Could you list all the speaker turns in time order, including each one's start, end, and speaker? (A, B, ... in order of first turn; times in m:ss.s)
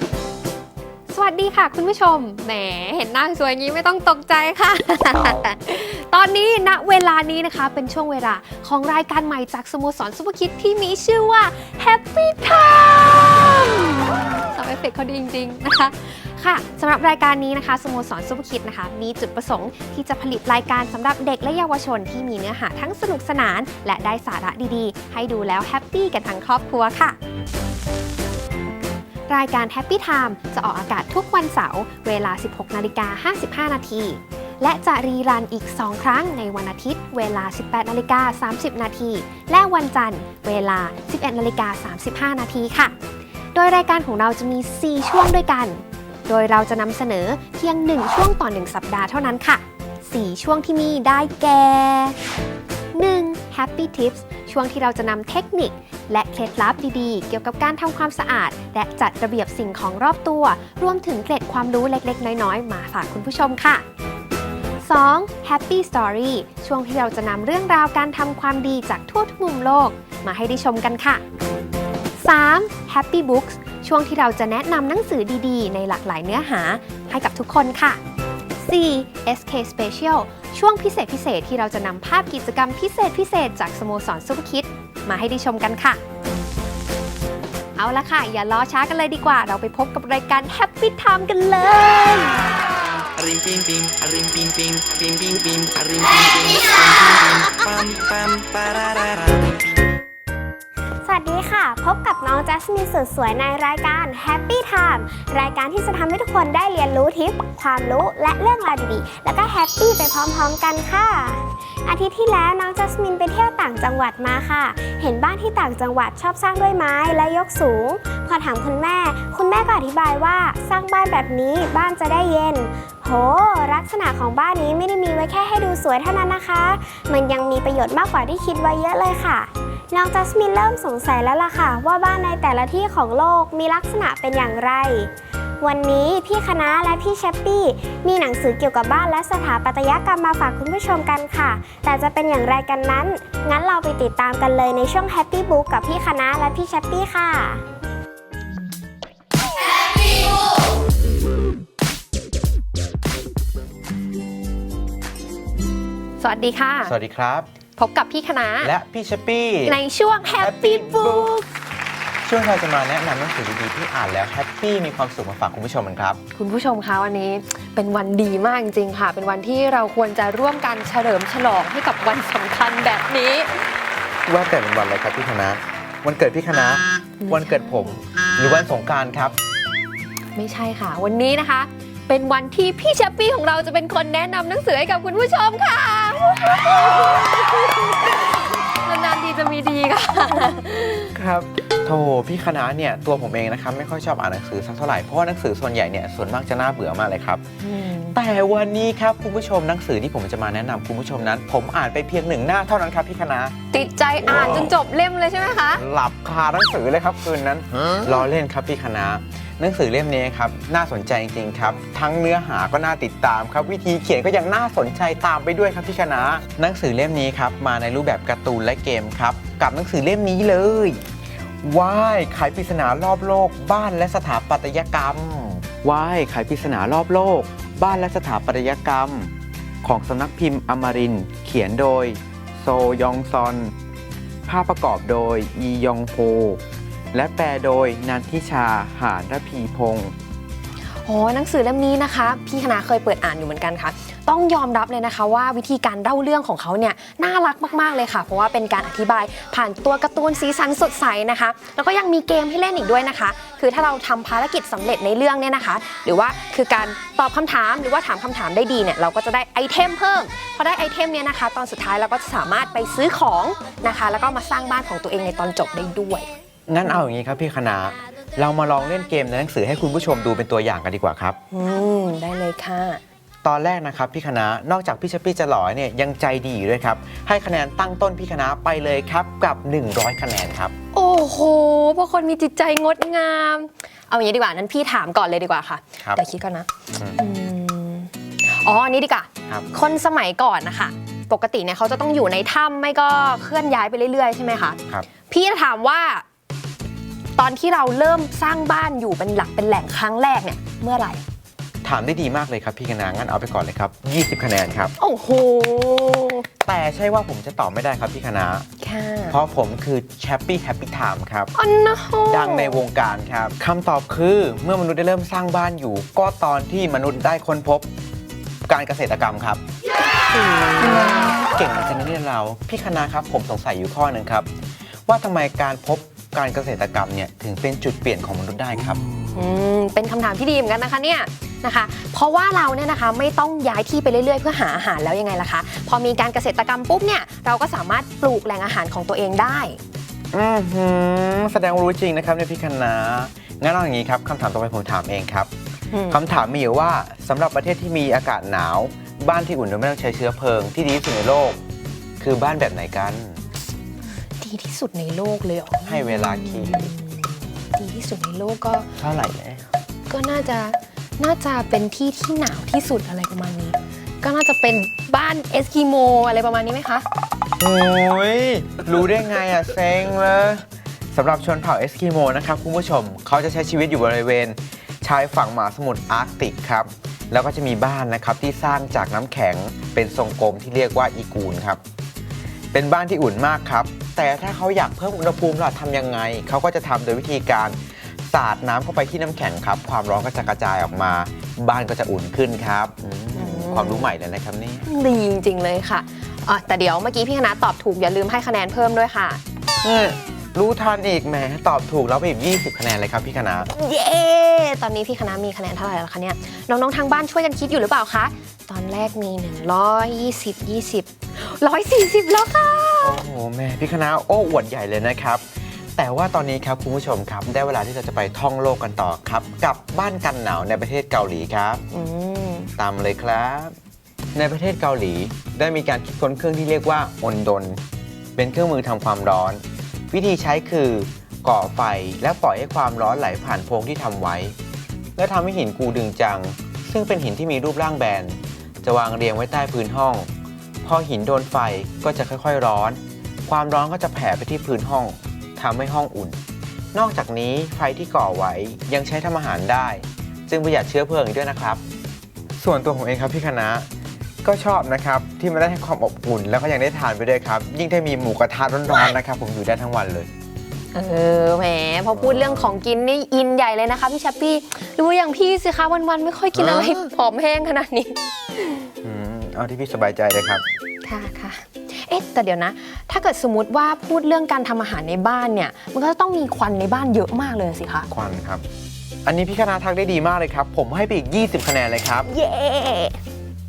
0:01.1-0:27.2 A
0:29.3-0:43.0 A
0:43.5-0:52.2 A
0:52.9-1:03.8 A
1:04.8-1:11.2 A
1:12.2-1:18.0 A
1:18.6-1:26.0 A
1:27.8-1:32.6 A
1:33.1-1:39.8 B
1:41.0-2:15.1 C
2:15.6-2:27.6 C
2:36.2-2:36.9 A
2:36.8-2:37.5 D
2:37.8-2:38.7 A
2:38.6-2:39.8 D
2:39.6-2:41.4 A
2:40.4-2:41.4 D
2:42.2-2:46.2 D
2:46.3-2:53.7 A
2:54.3-2:59.4 D
2:57.2-2:58.0 A
3:00.3-3:11.1 A
3:11.1-3:17.4 D
3:17.6-3:18.2 A
3:18.1-3:23.5 D
3:23.7-3:25.8 A
3:25.8-3:41.0 D
3:41.6-3:53.7 D
3:54.5-3:56.6 D
3:57.1-4:00.1 D
4:01.0-4:26.3 A
4:26.7-4:31.4 D
4:31.5-4:33.0 A
4:33.4-4:40.7 D
4:40.9-4:56.2 A
4:57.4-5:01.2 A
5:01.8-5:04.9 D
5:05.0-5:06.4 A
5:06.6-5:08.7 D
5:08.8-5:09.4 A
5:09.3-5:11.5 D
5:11.6-5:12.8 A
5:12.2-5:17.9 D
5:18.7-5:19.6 D
5:20.4-5:21.4 A
5:20.8-5:24.5 D
5:25.1-5:29.0 D
5:29.3-5:39.8 A
5:40.3-5:45.5 D
5:45.9-5:46.2 A
5:46.1-5:51.6 D
5:52.2-5:53.4 D
5:54.4-5:58.9 A
5:55.8-5:56.9 D
5:59.0-5:59.7 D
6:00.1-6:07.0 A
6:07.6-6:21.8 D
6:22.7-6:27.8 D
6:28.3-6:34.8 D
6:33.3-6:34.1 A
6:34.8-6:39.4 A
6:39.8-6:43.7 D
6:43.7-6:53.2 A
6:53.0-6:55.4 D
6:56.0-7:01.8 D
7:01.9-7:02.7 A
7:02.8-7:03.7 D
7:04.3-7:07.8 D
7:08.4-7:14.5 D
7:15.2-7:20.3 D
7:20.8-7:26.4 D
7:26.9-7:31.8 D
7:32.6-7:33.9 D
7:34.4-7:40.3 D
7:40.9-7:48.8 A
7:42.1-7:42.8 D
7:46.5-7:47.1 D
7:49.0-7:50.6 D
7:51.0-7:58.1 A
7:58.1-7:58.6 D
7:59.2-8:02.3 D
8:02.3-8:03.2 A